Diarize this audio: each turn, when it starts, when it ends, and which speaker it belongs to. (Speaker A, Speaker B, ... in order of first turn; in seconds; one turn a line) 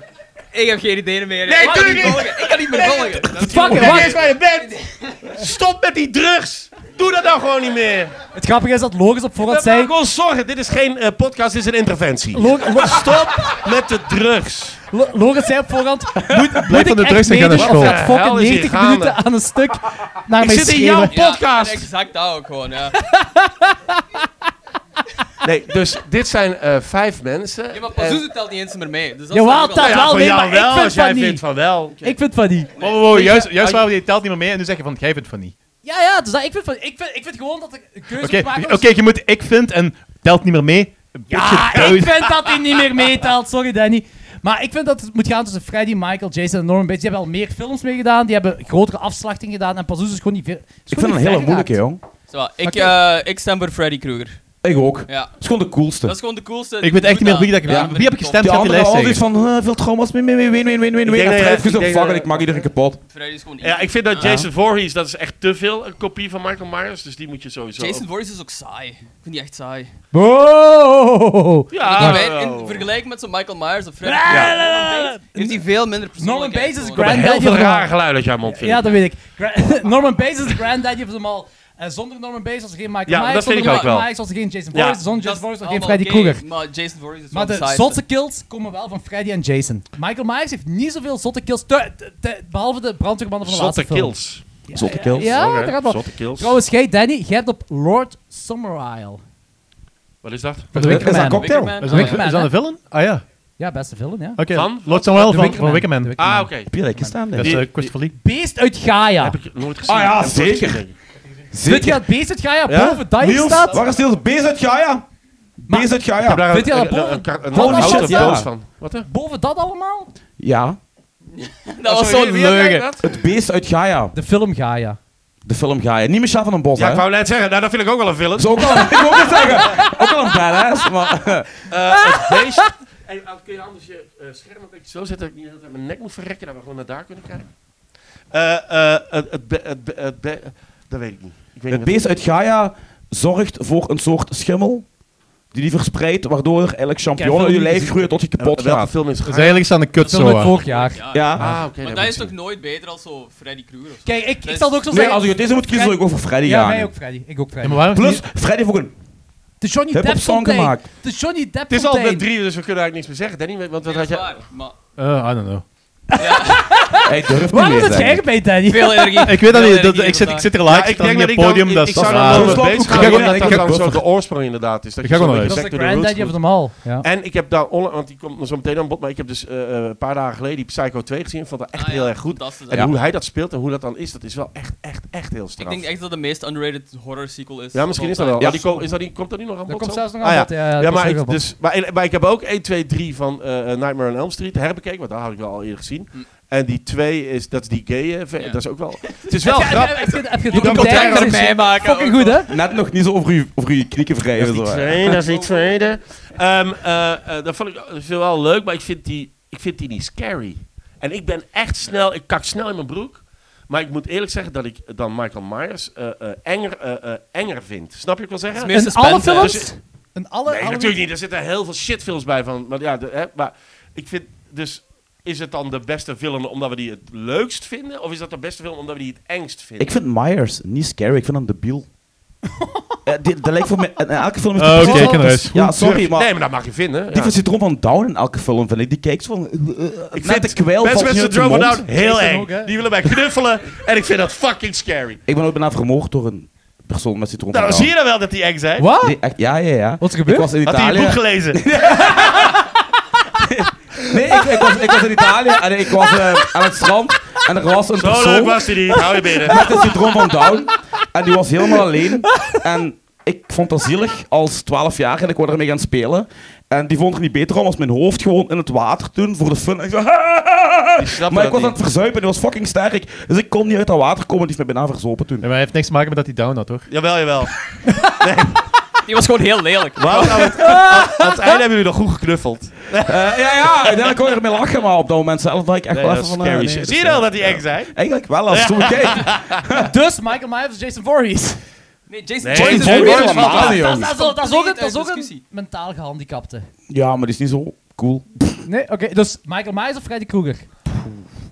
Speaker A: 0.5-3.4
Speaker B: 1.4-8.1
Speaker C: 1.6-2.2
Speaker C: 3.4-4.2
Speaker D: 3.4-4.1
Speaker C: 8.3-9.9
Speaker B: 9.5-14.8
Speaker C: 12.3-13.2
Speaker C: 14.9-21.2
Speaker D: 16.3-16.6
Speaker E: 16.6-18.0
Speaker B: 17.5-19.2
Speaker B: 20.4-21.9
Speaker A: 21.1-23.0
Speaker C: 23.0-24.0
Speaker B: 25.4-28.2
Speaker A: 27.7-30.2
Speaker C: 29.3-31.4
Speaker B: 29.8-32.2
Speaker C: 32.0-33.5
Speaker A: 32.8-33.8
Speaker E: 32.8-35.5
Speaker C: 35.8-38.9
Speaker E: 38.2-42.3
Speaker C: 41.3-51.8
Speaker D: 50.9-52.0
Speaker A: 52.3-54.4
Speaker D: 54.6-56.1
Speaker A: 55.1-55.4
Speaker A: 56.0-58.7
Speaker E: 56.8-59.2
Speaker D: 57.7-63.0
Speaker B: 61.0-62.6
Speaker A: 63.1-64.4
Speaker B: 63.6-68.0
Speaker A: 67.8-69.9
Speaker C: 70.1-72.2
Speaker B: 71.7-72.9
Speaker A: 71.8-77.2
Speaker C: 74.0-75.6
Speaker B: 74.3-74.5
Speaker C: 76.2-77.9
Speaker B: 77.0-79.0
Speaker C: 78.5-86.4
Speaker B: 83.1-84.1
Speaker B: 84.7-85.0
Speaker A: 85.1-88.0
Speaker C: 87.3-94.2
Speaker B: 93.4-94.5
Speaker C: 94.7-99.2
Speaker D: 94.7-95.4
Speaker B: 95.1-96.6
Speaker B: 100.2-100.7
Speaker C: 100.7-102.5
Speaker D: 100.8-101.8
Speaker A: 101.1-102.2
Speaker E: 101.8-103.2
Speaker C: 103.6-104.4
Speaker E: 104.4-106.3
Speaker B: 104.5-105.6
Speaker C: 105.2-107.2
Speaker B: 106.2-106.8
Speaker D: 106.7-107.7
Speaker E: 107.3-108.2
Speaker B: 107.4-108.0
Speaker C: 108.2-109.4
Speaker B: 109.2-111.0
Speaker D: 109.8-110.8
Speaker D: 111.5-112.0
Speaker C: 111.7-113.8
Speaker B: 112.7-113.0
Speaker D: 113.2-115.1
Speaker C: 115.7-118.4
Speaker D: 115.7-116.5
Speaker B: 116.2-119.1
Speaker D: 117.5-118.5
Speaker C: 119.1-120.1
Speaker D: 120.4-120.8
Speaker A: 121.3-122.9
Speaker B: 121.8-123.1
Speaker D: 123.0-124.1
Speaker C: 124.1-125.0
Speaker D: 125.5-127.0
Speaker B: 126.8-129.4
Speaker D: 128.4-131.5
Speaker C: 129.2-129.9
Speaker B: 131.7-137.5
Speaker C: 132.0-132.3
Speaker B: 138.3-142.0
Speaker D: 141.7-144.9
Speaker D: 145.5-148.9
Speaker C: 147.2-148.2
Speaker B: 148.4-149.7
Speaker E: 149.2-150.5
Speaker A: 150.0-154.8
Speaker C: 150.1-151.0
Speaker D: 151.1-151.5
Speaker B: 151.4-152.3
Speaker C: 154.1-157.9
Speaker D: 154.9-156.9
Speaker E: 157.6-158.2
Speaker D: 157.9-158.9
Speaker C: 159.6-162.3
Speaker D: 159.9-160.9
Speaker B: 161.7-164.4
Speaker A: 163.8-164.8
Speaker E: 165.0-165.7
Speaker C: 166.1-169.3
Speaker A: 166.2-166.7
Speaker D: 167.0-168.3
Speaker A: 168.7-170.5
Speaker E: 169.2-173.9
Speaker B: 170.6-185.9
Speaker D: 172.0-174.0
Speaker E: 175.0-175.6
Speaker C: 175.4-177.1
Speaker A: 181.7-182.9
Speaker A: 185.6-188.6
Speaker B: 187.7-201.5
Speaker D: 188.4-188.9
Speaker C: 189.7-191.4
Speaker A: 198.4-202.5
Speaker C: 199.4-202.5
Speaker D: 202.5-205.1
Speaker B: 204.4-219.7
Speaker A: 205.1-205.8
Speaker A: 218.6-219.7
Speaker C: 218.7-221.0
Speaker B: 220.5-229.9
Speaker D: 229.8-231.9
Speaker C: 232.6-233.0
Speaker D: 233.1-236.3
Speaker E: 234.6-235.6
Speaker C: 234.8-235.2
Speaker B: 235.6-237.4
Speaker D: 237.1-241.9
Speaker B: 240.1-245.2
Speaker C: 241.9-242.7
Speaker D: 245.3-247.9
Speaker B: 247.5-248.9
Speaker C: 248.8-249.2
Speaker D: 249.0-252.6
Speaker C: 250.0-250.5
Speaker B: 250.6-251.6
Speaker D: 253.4-258.8
Speaker B: 257.9-259.7
Speaker D: 259.4-275.5
Speaker B: 271.0-271.8
Speaker E: 275.4-276.9
Speaker B: 276.9-278.6
Speaker A: 279.1-280.6
Speaker B: 280.0-283.2
Speaker C: 280.6-281.0
Speaker D: 283.0-289.9
Speaker B: 285.9-289.6
Speaker C: 289.8-291.6
Speaker A: 292.1-295.4
Speaker B: 292.4-293.8
Speaker D: 292.5-294.1
Speaker C: 293.5-296.7
Speaker D: 296.9-298.6
Speaker C: 298.6-300.7
Speaker D: 300.9-301.2